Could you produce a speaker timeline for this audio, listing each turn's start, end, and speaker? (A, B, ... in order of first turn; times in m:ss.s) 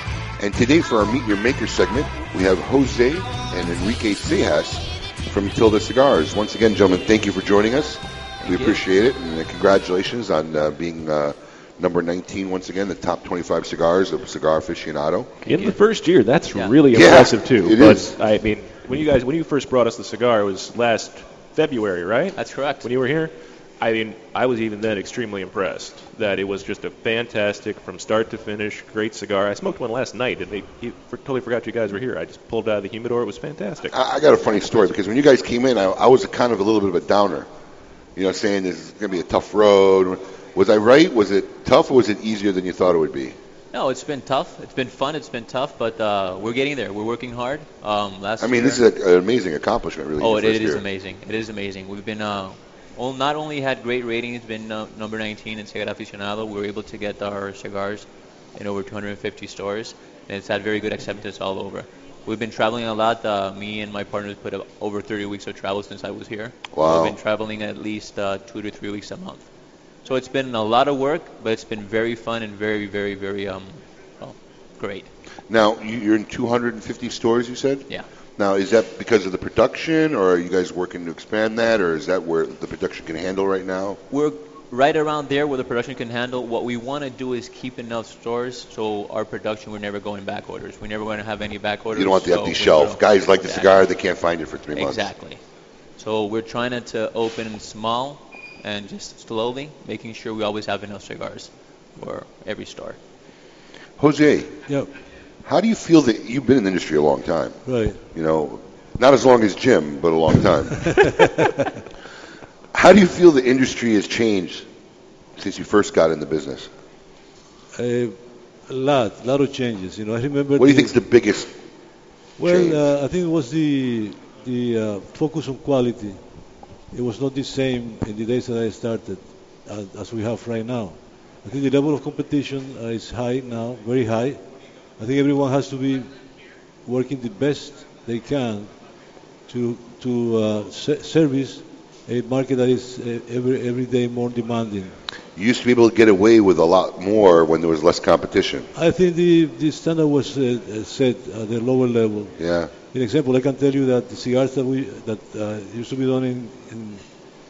0:00.4-0:15.3 A
0:08.4-0:08.8 B
0:15.4-0:15.8 B
0:15.4-0:33.9 C
0:16.5-0:16.8 B
0:16.9-0:18.1 A
0:22.4-0:22.9 B
0:33.9-0:37.5 A
0:34.4-0:34.9 B
0:38.2-0:43.4 A
0:43.7-0:48.8 B
0:48.4-0:50.8 A
0:50.2-1:09.4 B
1:06.7-1:07.1 A
1:10.0-1:15.1 B
1:15.5-1:17.8 A
1:18.4-1:24.0 A
1:24.1-1:33.9 B
1:31.9-1:35.0 A
1:34.7-1:35.4 B
1:36.0-1:43.0 B
1:44.0-1:44.6 A
1:45.4-1:47.6 A
1:47.6-1:48.0 D
1:48.1-1:50.9 A
1:50.8-1:51.1 D
1:52.7-1:54.6 A
1:55.4-1:56.7 A
1:57.8-1:58.2 D
1:58.7-2:00.9 D
2:00.6-2:01.5 A
2:02.4-2:06.2 D
2:02.4-2:02.8 A
2:06.9-2:14.4 D
2:15.0-2:16.1 D
2:16.8-2:18.7 D
2:19.5-2:25.0 D
2:25.4-2:28.7 A
2:28.7-2:32.3 D
2:32.4-2:32.7 A
2:32.9-2:37.0 D